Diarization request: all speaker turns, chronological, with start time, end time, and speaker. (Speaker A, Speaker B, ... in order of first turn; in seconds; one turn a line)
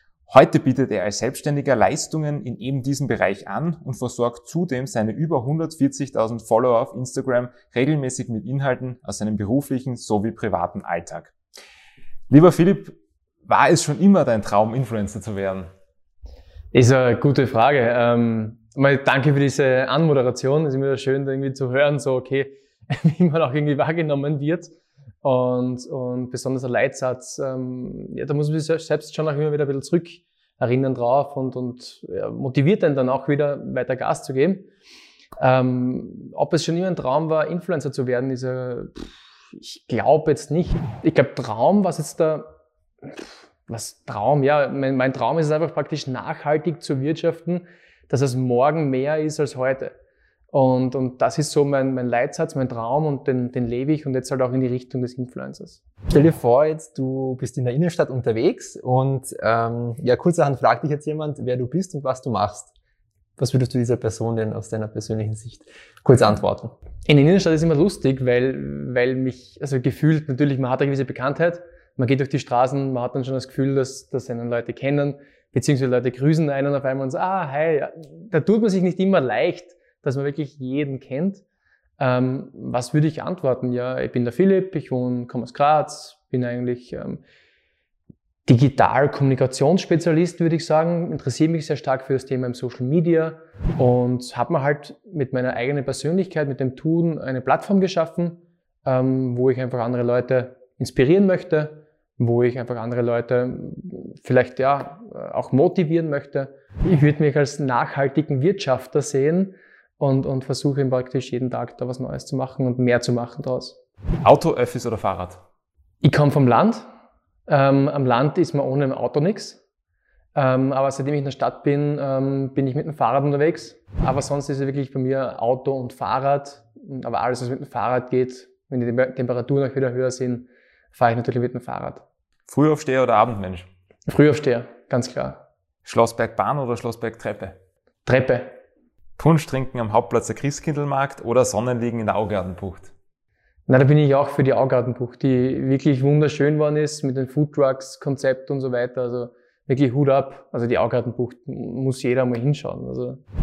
Speaker A: 0.3-11.3
Speaker A: 12.3-13.0
Speaker A: 13.5-15.7
Speaker B: 16.7-24.7
Speaker B: 25.2-34.7
Speaker B: 35.4-42.5
Speaker B: 43.1-50.0
Speaker B: 50.5-55.8
Speaker C: 56.1-62.7
Speaker C: 63.4-66.7
Speaker B: 67.0-81.4
Speaker B: 82.0-87.2
Speaker B: 88.5-113.8
Speaker A: 114.2-115.4
Speaker B: 116.0-116.9
Speaker B: 117.5-119.6
Speaker B: 120.3-132.0
Speaker A: 132.5-133.7
Speaker B: 134.1-135.4
Speaker A: 135.8-137.6
Speaker B: 138.1-138.6
Speaker A: 139.2-142.9
Speaker B: 143.7-153.2